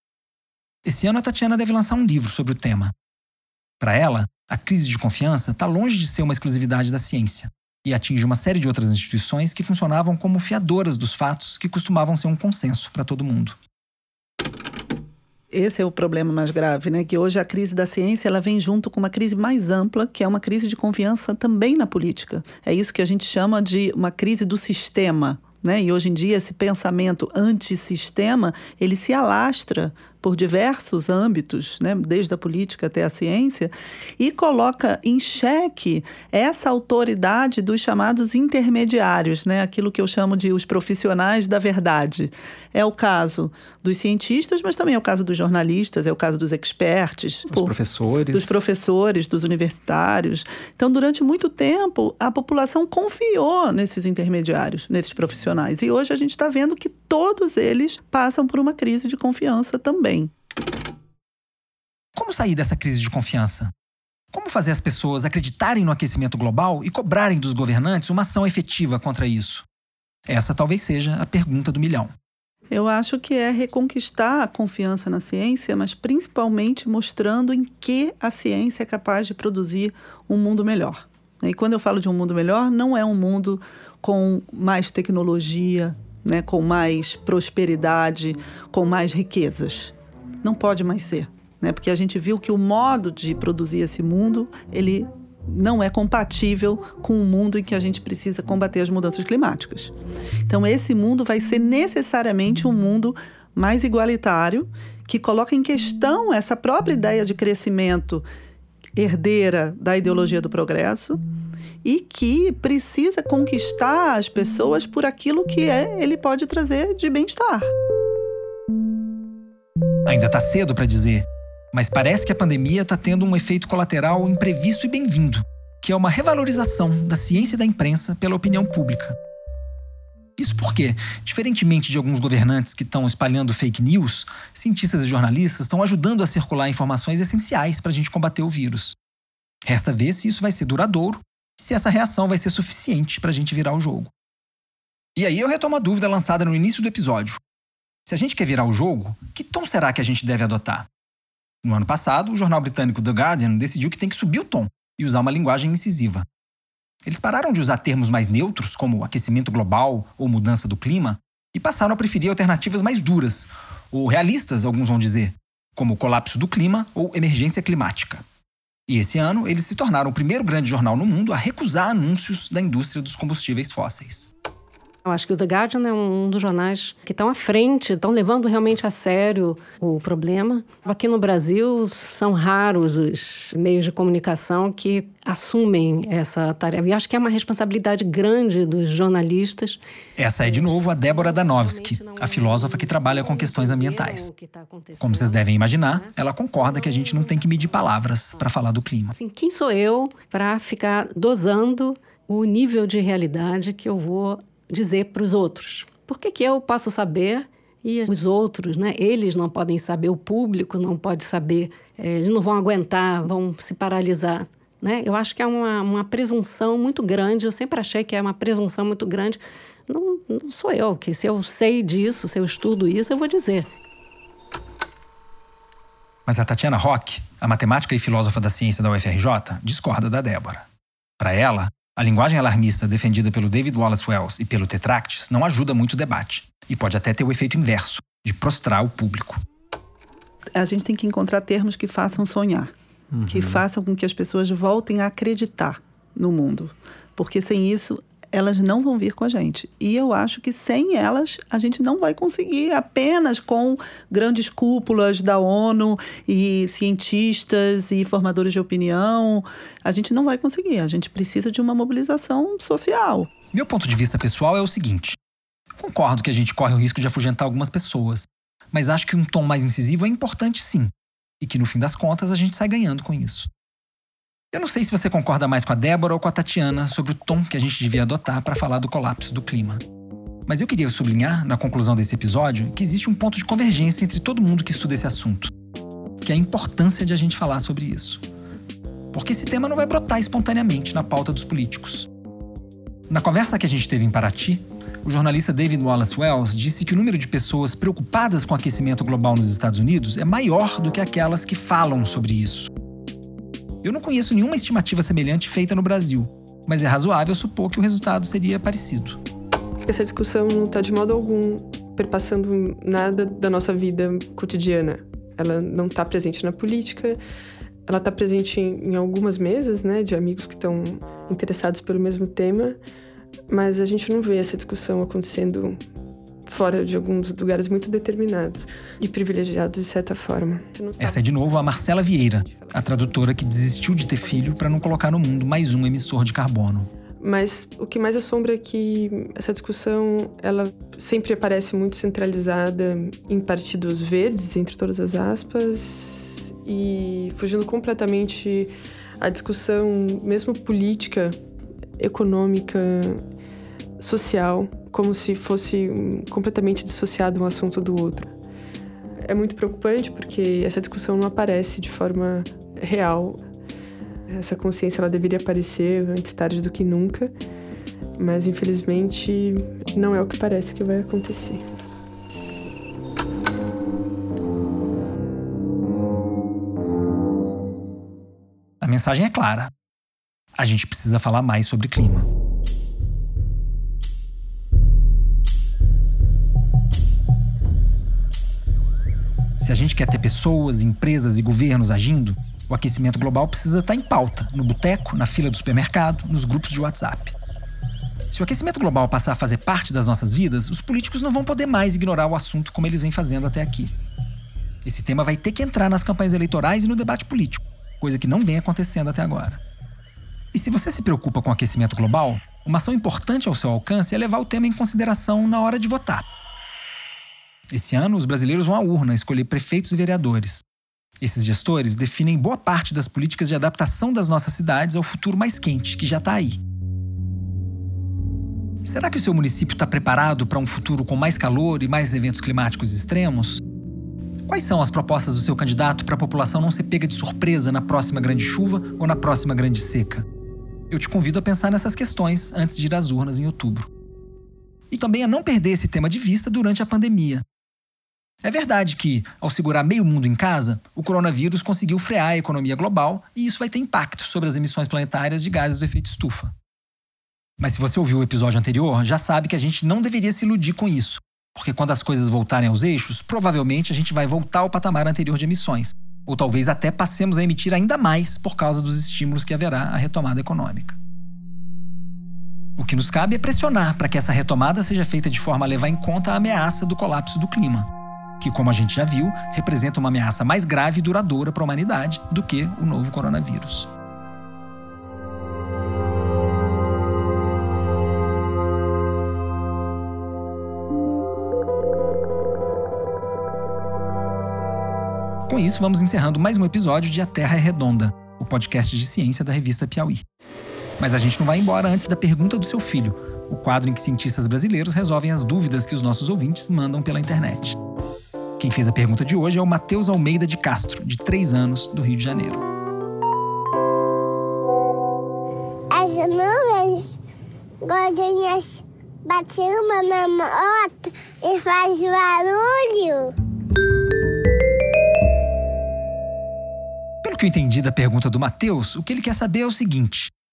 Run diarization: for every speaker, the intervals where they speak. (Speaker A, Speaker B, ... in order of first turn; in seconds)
Speaker A: 0.8-2.9, 3.8-13.6, 47.5-48.5, 62.1-63.7, 64.3-69.7, 70.3-72.1, 120.1-129.2, 130.4-139.0, 139.7-144.1, 145.2-147.4, 148.1-150.9, 151.6-156.3, 157.0-168.2, 168.9-174.3, 190.2-194.3, 195.0-199.2, 226.3-230.7, 231.2-239.4, 243.2-243.6, 263.5-265.2, 265.8-273.5, 274.5-279.8, 280.5-285.5, 286.2-288.2, 289.1-292.1, 293.1-302.7, 303.8-309.2, 331.0-336.9, 378.8-379.7, 380.6-382.3, 389.6-397.4, 398.3-403.9, 404.8-409.6, 410.5-416.2, 417.7-420.6, 421.2-426.6, 428.8-433.6, 434.5-440.2, 440.9-443.9, 444.9-447.4, 448.4-456.5, 457.6-471.0, 472.8-477.9, 478.4-483.9, 495.5-500.2, 501.0-507.8, 508.6-512.6, 527.2-530.3
Speaker B: 15.5-47.7, 48.3-60.3, 72.7-99.9, 100.5-108.3, 109.0-111.2, 111.8-117.7, 240.6-242.7, 243.2-263.3
Speaker C: 175.1-189.8, 190.4-197.7, 199.1-223.7
Speaker D: 309.9-317.2, 317.9-322.8, 323.5-325.8, 326.5-333.1, 337.2-351.4, 352.0-353.2, 354.0-358.3, 359.2-363.4, 364.3-367.3, 368.2-371.6
Speaker E: 515.9-517.2, 517.8-523.3